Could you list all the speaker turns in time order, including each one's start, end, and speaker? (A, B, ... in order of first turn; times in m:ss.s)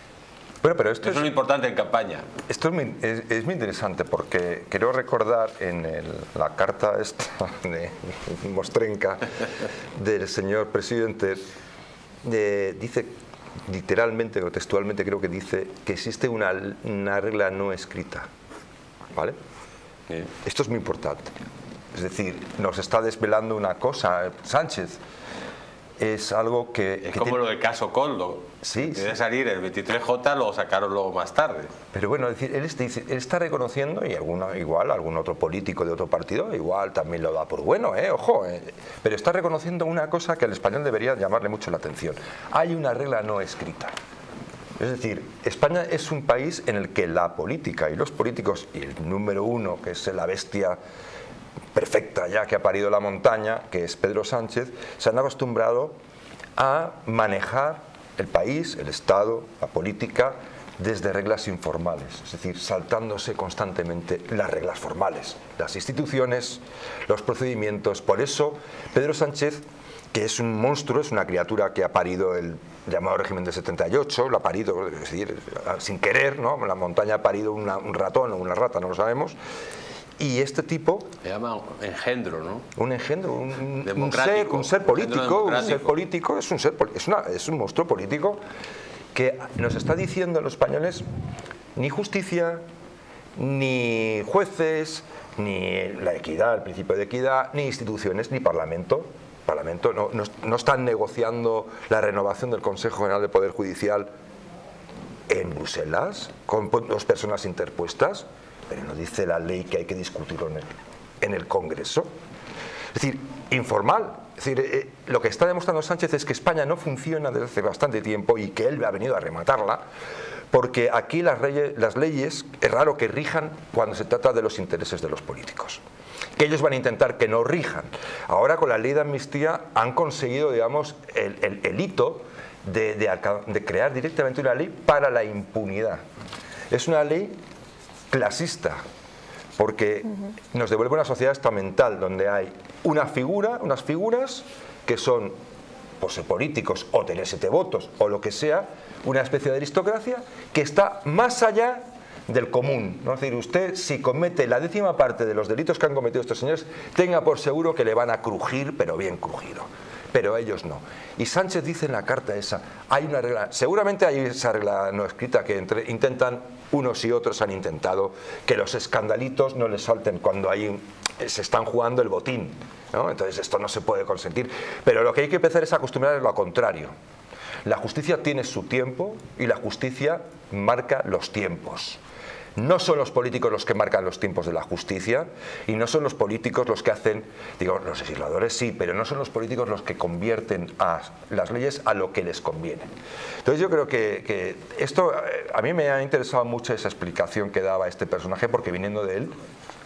0:00.6-0:01.3 A
0:01.0-0:02.3 B
0:02.5-0:09.3 A
0:10.0-0:11.4 A
0:12.2-0:13.1 A
0:13.6-0:18.3 A
0:20.4-0:21.3 A
0:21.9-0:25.0 A
0:26.0-0:27.4 A
0:27.0-0:31.7 B
0:28.6-0:29.2 A
0:31.9-0:43.9 A
0:44.8-0:50.8 A
0:51.7-0:55.9 A
0:56.6-1:19.4 A
1:20.2-1:21.1 A
1:21.2-1:22.6 B
1:22.8-1:28.4 A
1:23.8-1:25.9 B
1:29.1-1:31.0 A
1:31.8-1:32.6 A
1:33.4-1:44.1 A
1:45.3-1:52.1 A
1:52.9-1:59.8 A
2:00.5-2:05.8 A
2:06.4-2:16.0 A
2:16.7-2:17.3 A
2:18.1-2:18.8 A
2:19.6-2:25.3 A
2:26.0-2:56.9 A
2:57.6-3:02.0 A
3:02.6-3:12.9 A
3:13.4-3:19.3 A